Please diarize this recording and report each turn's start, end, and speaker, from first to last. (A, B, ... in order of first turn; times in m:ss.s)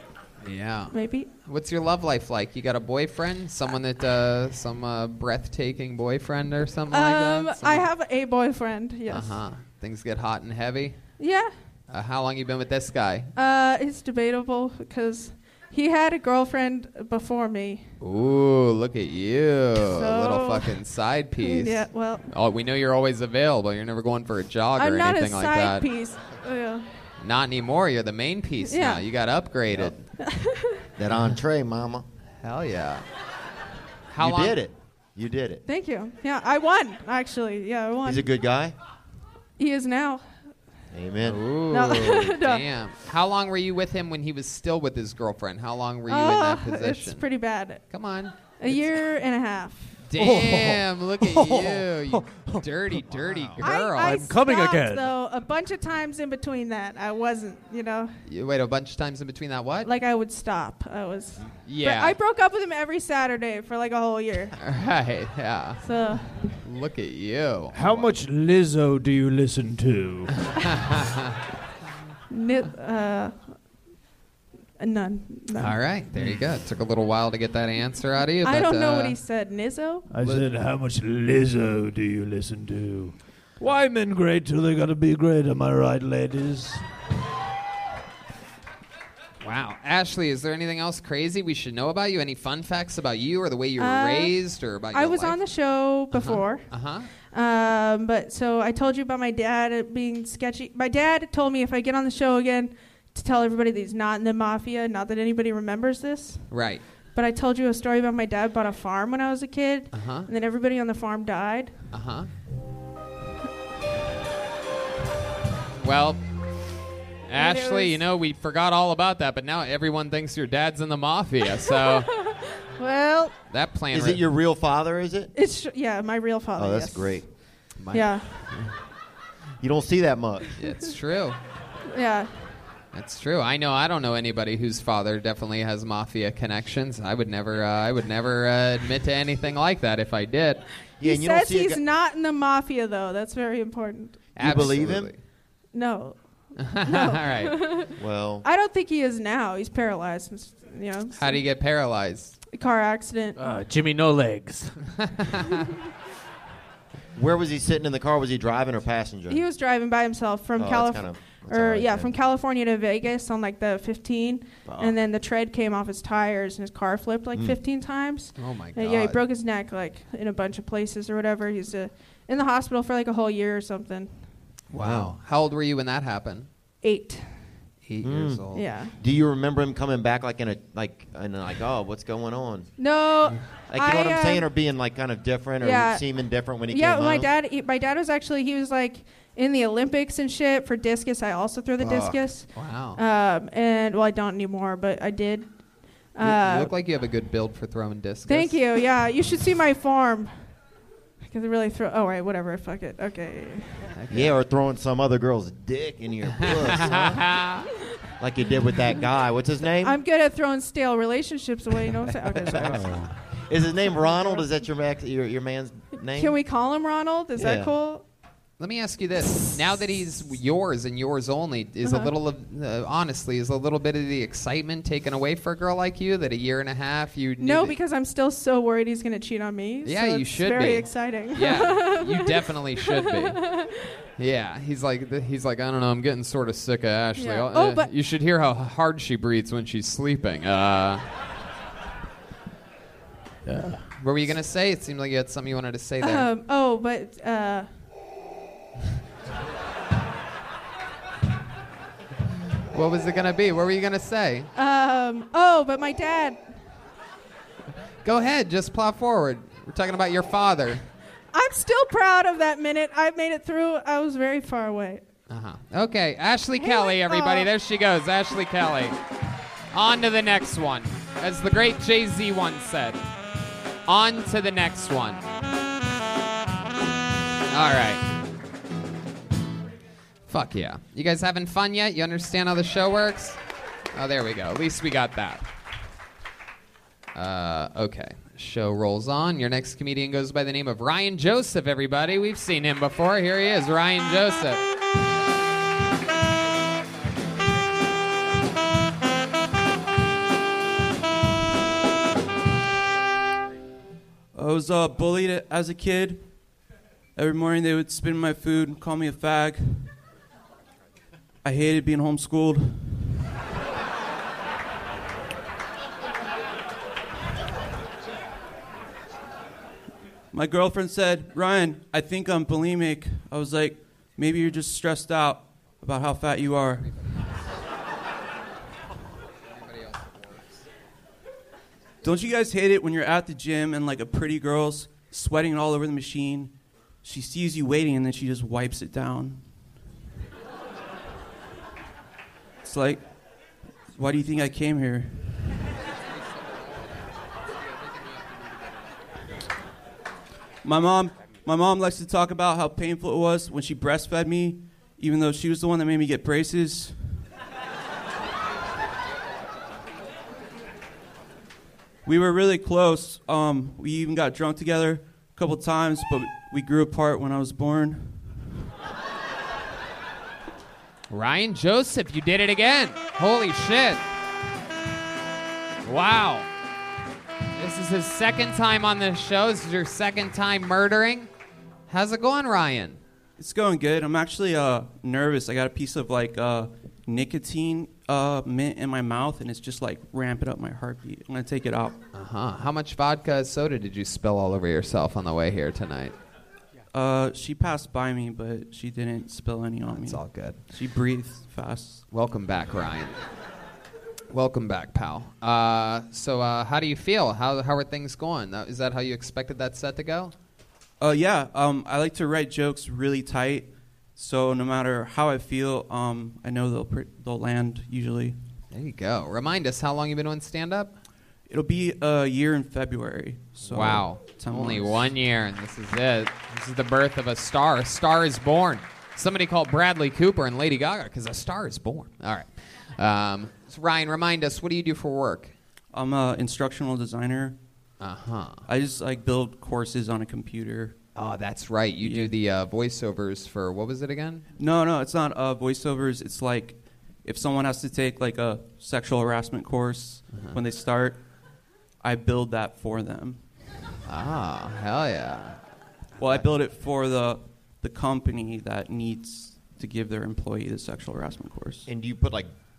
0:00.4-0:00.9 A
0:00.9-0:01.3 B
0:01.4-0:07.8 A
0:06.9-0:09.3 B
0:09.1-0:11.0 A
0:11.2-0:11.5 B
0:11.9-0:13.3 A
0:13.3-0:17.8 B
0:18.0-0:25.9 A
0:19.8-0:20.8 B
0:21.4-0:22.3 B
0:24.8-0:26.9 B
0:27.2-0:30.0 A
0:28.6-0:29.0 B
0:29.7-0:29.9 C
0:30.2-0:30.8 B
0:31.0-0:32.0 C
0:32.4-0:33.0 A
0:34.1-0:34.6 A
0:34.2-0:35.6 C
0:35.6-0:38.3 B
0:38.0-0:38.7 C
0:39.6-0:40.2 B
0:40.9-0:41.4 C
0:41.2-0:47.2 A
0:41.7-0:42.6 B
0:46.1-0:47.8 B
0:47.9-0:48.3 A
0:48.6-0:50.0 B
0:50.1-0:54.3 A
0:50.2-0:50.8 D
0:51.3-0:52.5 D
0:53.1-0:53.6 C
0:53.6-0:58.1 B
0:54.0-0:55.1 E
0:58.3-0:59.9 A
0:59.8-1:04.5 B
1:01.6-1:02.2 A
1:04.6-1:05.8 A
1:05.8-1:06.5 B
1:06.6-1:08.1 A
1:07.7-1:10.3 D
1:10.7-1:11.4 A
1:12.3-1:13.6 B
1:14.8-1:15.8 B
1:15.6-1:19.2 A
1:18.4-1:20.0 B
1:20.1-1:26.8 D
1:20.2-1:20.4 A
1:29.4-1:35.4 A
1:33.8-1:34.4 B
1:34.9-1:36.7 B
1:36.1-1:37.1 A
1:37.3-1:46.5 B
1:46.5-1:46.8 A
1:47.1-1:51.7 B
1:49.9-1:50.3 A
1:51.9-1:52.3 A
1:55.8-1:56.3 A
1:57.3-2:02.1 A
1:57.3-1:58.0 B
2:01.7-2:03.4 B
2:03.5-2:04.2 A
2:03.9-2:05.3 C
2:05.3-2:07.2 B
2:06.6-2:07.2 C
2:07.8-2:08.7 A
2:07.9-2:08.3 B
2:09.6-2:10.5 C
2:10.6-2:11.4 A
2:11.9-2:12.5 B
2:12.9-2:20.6 A
2:21.0-2:21.8 C
2:21.0-2:24.3 B
2:24.4-2:25.2 A
2:24.4-2:25.1 C
2:25.7-2:31.4 B
2:26.6-2:27.7 A
2:28.0-2:28.4 C
2:31.2-2:32.4 A
2:32.5-2:33.4 B
2:33.4-2:34.8 E
2:35.2-2:35.5 A
2:37.1-2:39.4 C
2:39.3-2:54.1 B
2:40.6-2:42.1 C
2:44.6-2:44.9 C
2:48.4-2:49.2 A
2:54.7-2:56.5 A
2:54.7-2:55.2 C
2:56.8-2:57.4 B
2:57.8-2:58.6 A
2:58.0-2:58.4 C
2:58.5-2:58.9 B
2:59.0-3:02.7 C
3:02.8-3:04.5 B
3:03.7-3:07.3 C
3:05.6-3:06.0 B
3:06.7-3:15.6 B
3:11.8-3:12.2 C
3:12.5-3:13.0 A
3:16.1-3:16.7 B
3:16.2-3:18.6 A
3:18.3-3:20.3 B
3:21.2-3:23.9 B
3:23.9-3:24.4 A
3:24.1-3:27.3 C
3:26.4-3:27.7 A
3:28.2-3:30.0 C
3:29.8-3:33.0 B
3:32.3-3:36.4 C
3:36.0-3:38.0 B
3:37.4-3:37.7 C
3:38.6-3:47.7 A
3:41.8-3:42.1 B
3:47.4-3:53.8 B
3:49.8-3:53.4 A
3:54.2-4:01.0 A
3:57.2-3:57.9 B
4:03.8-4:06.3 A
4:06.0-4:07.7 B
4:12.7-4:14.5 A
4:14.5-4:16.4 B
4:18.0-4:20.8 A
4:21.3-4:25.0 B
4:25.3-4:29.0 A
4:26.6-4:27.5 B
4:29.7-4:33.0 A
4:33.8-4:35.2 A
4:37.5-4:38.0 A
4:40.3-4:43.4 A
4:43.9-4:45.5 A
4:47.1-4:54.6 A
5:04.3-5:06.2 F
5:07.2-5:09.9 F
5:11.4-5:13.2 F
5:20.3-5:27.0 F
5:32.0-5:39.5 F
5:42.6-5:43.0 F
5:43.9-5:45.5 F
5:50.6-5:57.3 F
6:02.0-6:08.5 F
6:11.1-6:14.0 A
6:15.8-6:16.5 A
6:17.5-6:21.3 A
6:21.9-6:23.0 A
6:23.4-6:32.0 F
6:32.1-6:36.2 A
6:36.9-6:42.0 F
6:39.9-6:40.6 A
6:42.1-6:43.2 A
6:44.3-6:50.3 A
6:51.0-6:58.4 F
6:58.7-7:00.9 A
7:01.5-7:05.1 F
7:03.6-7:15.5 A
7:15.9-7:17.6 F
7:18.0-7:18.6 A
7:18.7-7:21.0 F
7:21.1-7:24.4 A
7:22.0-7:22.3 F
7:24.6-7:31.2 F
7:30.3-7:30.6 A
7:32.0-7:33.4 F
7:34.0-7:35.6 A
7:36.2-7:41.9 F
7:41.9-7:42.5 C